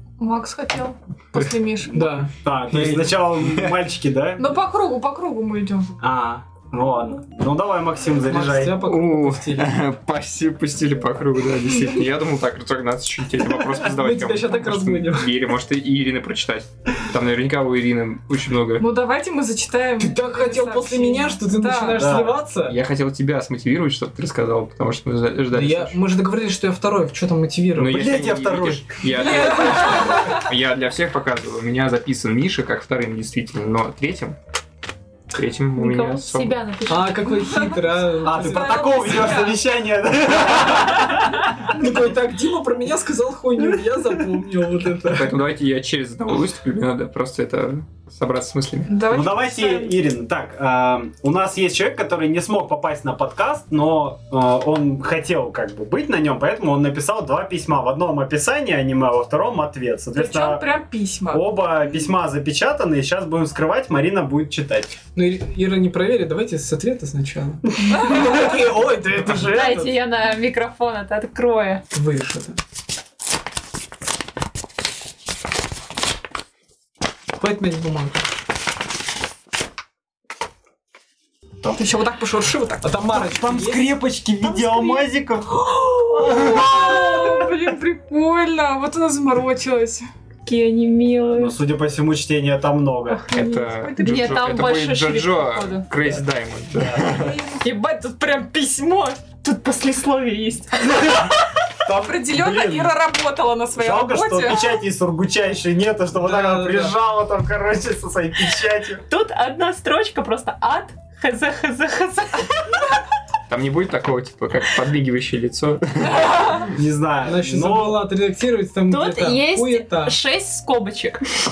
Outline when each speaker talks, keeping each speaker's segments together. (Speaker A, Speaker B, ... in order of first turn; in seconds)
Speaker A: 0.2-2.1, 4.4-5.9, 18.8-22.1, 29.1-30.4, 37.4-39.6, 48.9-50.0, 60.2-61.5, 67.9-68.5, 81.8-82.9, 86.1-90.0, 93.4-94.4, 97.2-97.6, 101.9-104.7
Speaker B: 1.9-2.3, 8.3-9.8, 13.8-15.4, 20.0-22.8, 25.5-28.0, 29.2-30.2, 36.9-39.1, 41.7-45.3, 65.2-70.0, 71.9-72.6, 77.4-78.2, 82.8-83.9, 106.2-107.0, 117.2-120.2
Speaker C: 2.0-4.5, 6.0-8.8, 22.0-22.4, 27.9-29.0, 38.2-41.7, 49.1-60.7, 61.3-65.0, 83.2-87.5, 91.3-93.2, 96.7-97.2, 101.8-103.0, 103.8-109.0, 116.6-118.0
Speaker D: 2.7-3.7, 8.8-18.9, 22.7-25.9, 27.8-34.4, 35.3-36.6, 45.1-49.0, 93.3-97.4, 113.5-116.6
Speaker E: 35.8-37.5, 69.4-71.8, 84.4-85.0, 90.5-91.5, 93.1-95.9, 97.4-101.3, 109.1-112.8, 118.9-121.2